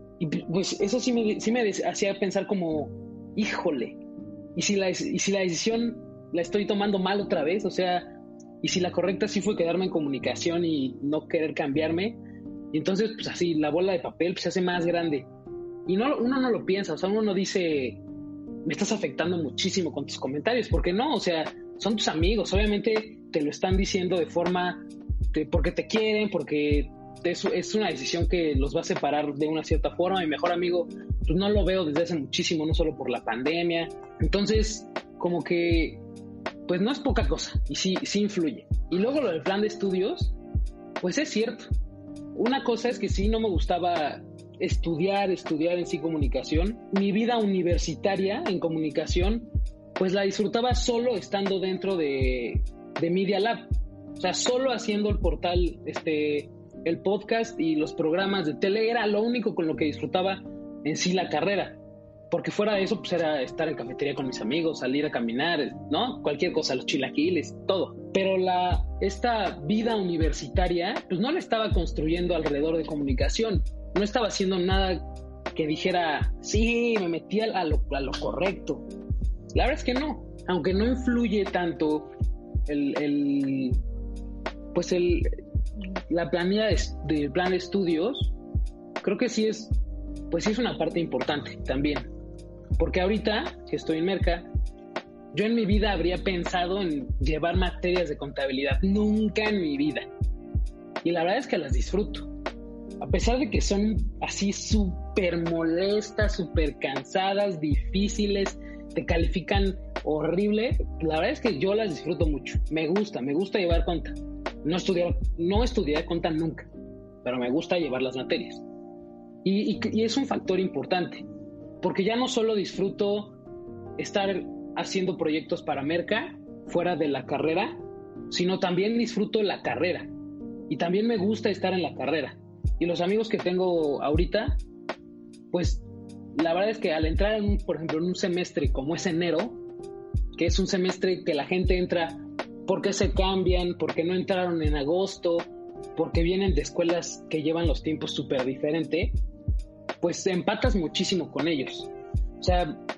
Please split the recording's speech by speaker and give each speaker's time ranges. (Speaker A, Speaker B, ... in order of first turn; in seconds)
Speaker A: 0.2-4.0, 4.5-12.2, 12.7-15.3, 15.8-18.0, 18.6-36.0, 36.7-40.3, 41.0-41.7, 42.3-61.8, 62.3-78.8, 79.5-82.1, 82.7-83.8, 84.7-85.3, 86.1-88.3, 89.0-89.7, 90.3-92.1, 92.8-94.5, 95.3-100.1, 101.0-102.3, 103.0-116.7, 117.2-118.6, 119.4-121.2, 121.8-123.4, 124.0-130.1, 130.7-134.6, 135.5-135.8, 136.3-139.6, 140.3-149.2, 150.0-151.9, 152.4-152.8